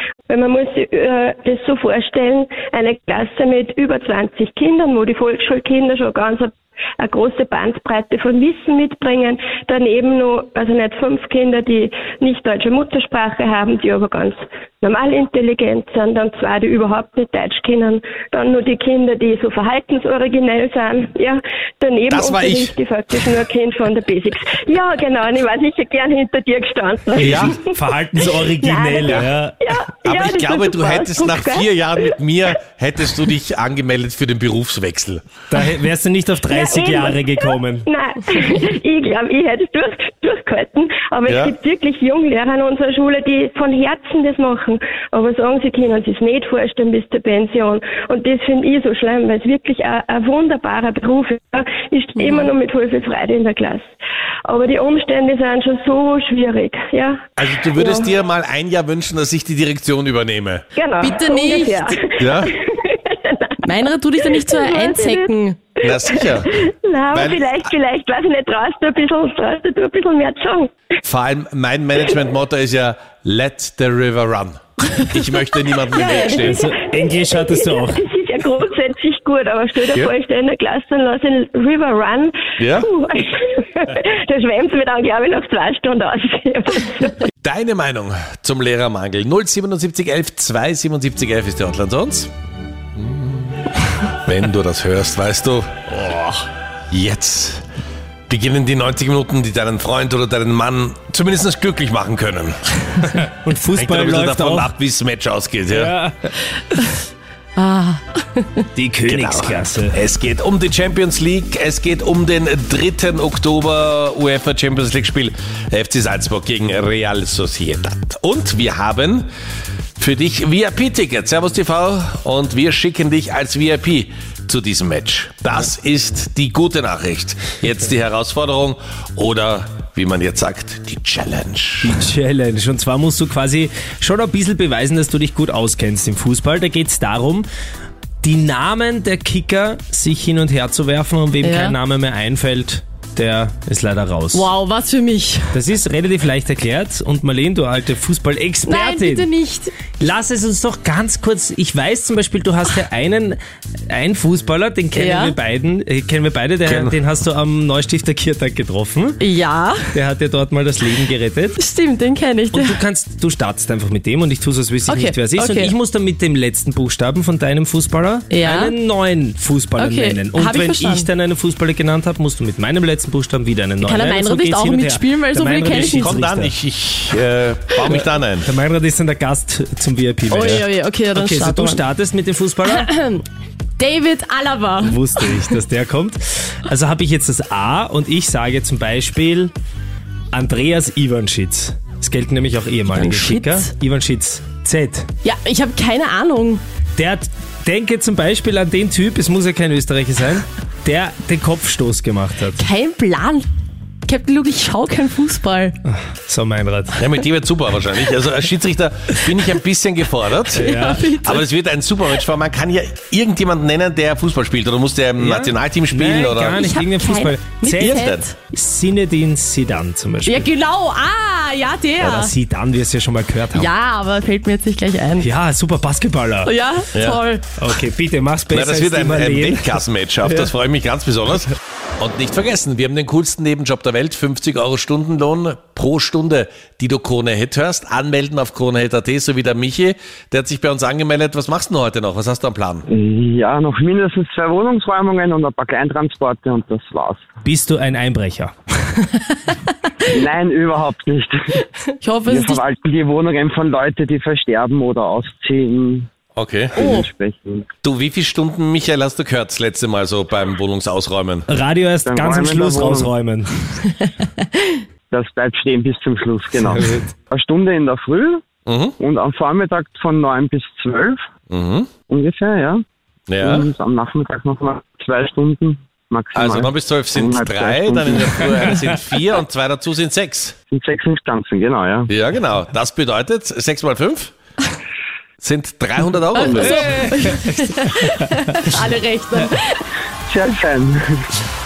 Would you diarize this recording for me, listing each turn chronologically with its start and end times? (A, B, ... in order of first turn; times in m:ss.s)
0:00.3-0:32.1 A
0:22.1-0:22.8 B
0:27.2-0:29.6 C
0:27.2-0:27.6 B
0:30.0-0:35.2 B
0:35.5-0:37.9 C
0:36.5-0:53.9 A
0:41.3-0:41.5 B
0:52.2-0:52.5 D
0:54.4-0:58.1 A
0:57.4-1:00.6 B
1:00.7-1:10.7 A
1:01.0-1:02.0 D
1:02.2-1:02.5 B
1:03.6-1:05.6 D
1:05.8-1:06.5 B
1:07.1-1:07.5 B
1:11.0-1:16.6 B
1:15.9-1:27.2 A
1:16.0-1:18.0 C
1:22.6-1:22.9 B
1:27.4-1:32.3 B
1:33.0-1:33.3 B
1:34.2-1:35.7 B
1:36.0-1:36.4 C
1:36.9-1:37.6 B
1:38.3-1:43.2 B
1:43.2-1:44.7 C
1:43.7-1:45.9 B
1:45.7-1:46.3 C
1:47.6-1:48.6 D
1:48.8-1:50.0 C
1:49.0-1:59.2 B
2:00.0-2:11.9 B
2:11.8-2:17.4 C
2:18.2-2:24.5 C
2:21.4-2:21.8 D
2:24.3-2:25.6 D
2:25.5-2:29.3 C
2:28.6-2:29.7 D
2:29.9-2:33.4 C
2:33.9-2:39.2 C
2:34.9-2:35.4 D
2:36.6-2:37.0 B
2:39.2-2:39.9 D
2:39.9-2:41.6 C
2:41.6-2:42.8 D
2:42.5-2:56.5 C
2:44.9-2:45.7 D
2:48.3-2:48.7 D
2:49.8-2:51.1 D
2:53.8-2:56.2 D
2:55.8-2:58.5 B
2:57.9-3:02.9 C
3:00.3-3:01.8 D
3:02.6-3:03.2 D
3:03.8-3:05.5 D
3:04.8-3:09.5 C
3:10.3-3:15.1 C
3:12.9-3:13.7 D
3:15.2-3:16.6 D
3:17.0-3:22.6 C
3:22.6-3:23.4 D
3:24.0-3:25.8 D
3:25.9-3:27.0 C
3:26.9-3:36.6 B
3:30.5-3:31.4 D
3:30.6-3:31.1 C
3:35.2-3:40.5 C
3:36.5-3:38.3 D
3:37.7-3:38.2 B
3:40.2-3:42.3 D
3:42.0-3:43.7 C
3:43.5-3:45.3 D
3:45.2-3:46.5 C
3:46.4-3:47.6 D
3:46.9-3:47.2 B
3:47.6-3:49.8 C
3:48.5-4:02.8 B
4:02.9-4:07.3 E
4:07.4-4:09.0 C
4:10.1-4:11.6 E
4:12.0-4:12.6 D
4:12.2-4:16.1 E
4:16.3-4:16.8 B
4:16.7-4:17.7 E
4:16.8-4:17.1 D
4:17.8-4:21.5 B
4:21.5-4:23.6 C
4:22.0-4:23.1 E
4:25.1-4:28.4 E
4:26.7-4:27.0 C
4:28.6-4:29.0 B
4:29.0-4:31.2 E
4:31.5-4:31.9 B
4:32.1-4:32.8 E
4:33.3-4:33.7 B
4:33.4-4:38.7 E
4:36.3-4:40.6 B
4:40.7-4:42.1 E
4:42.1-4:44.3 B
4:45.4-4:47.0 B
4:46.3-4:49.8 D
4:46.6-4:47.7 C
4:50.3-4:51.3 E